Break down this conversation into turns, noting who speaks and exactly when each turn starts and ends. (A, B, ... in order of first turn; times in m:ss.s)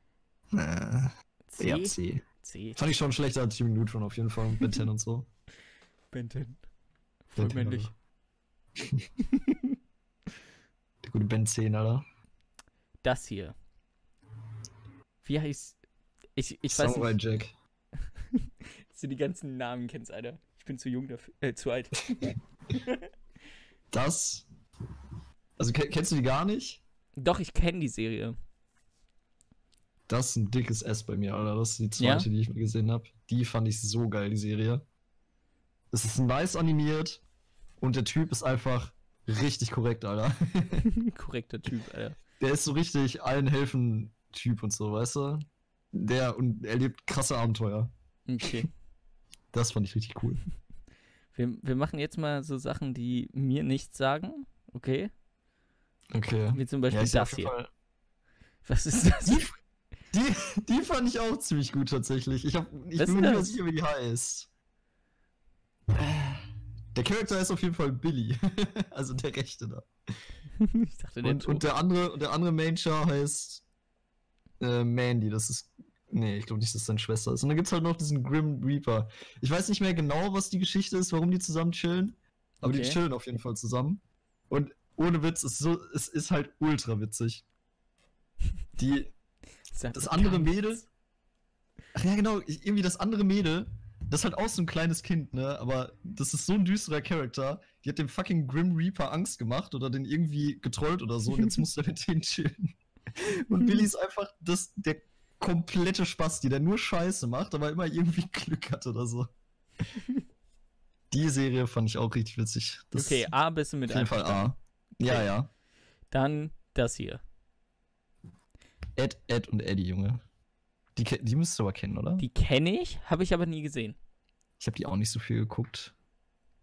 0:00.5-0:05.3 A
0:01.5-0:02.9 B
0:06.1-0:06.6 B
0:07.3-0:07.9 B
0:07.4-0:07.9 A
0:08.8-0:09.1 A
0:09.3-0:09.7 B
0:11.0-0:12.0 A
0:13.0-0:13.5 B
0:15.2-0:15.8 B
0:16.4-0:17.2 B
0:16.7-0:17.5 A
0:18.3-0:23.1 B
0:23.9-0:24.4 A
0:25.6-0:26.8 A
0:27.2-0:28.3 B
0:30.1-0:34.8 A
0:32.0-0:32.3 B
0:35.9-0:37.2 A
0:37.8-0:40.8 A
0:40.8-0:42.2 B
0:42.4-0:47.9 A
0:48.3-0:48.7 B
0:49.5-0:50.4 A
0:51.3-0:55.1 B
0:56.1-0:57.7 A
0:56.5-0:57.5 B
0:58.6-0:59.5 B
1:00.1-1:04.5 A
1:03.0-1:03.6 B
1:05.9-1:09.9 A
1:10.6-1:11.6 B
1:11.2-1:13.6 A
1:14.6-1:27.4 A
1:22.6-1:23.0 B
1:28.8-1:29.1 A
1:29.7-1:30.8 B
1:29.9-1:30.8 A
1:31.9-1:49.3 A
1:51.1-1:53.3 A
1:52.9-1:54.5 B
1:53.9-1:55.5 A
1:55.0-1:55.3 B
1:56.1-1:57.2 B
1:59.0-2:00.2 A
2:01.0-2:02.2 A
2:02.2-2:04.0 B
2:04.6-2:05.9 A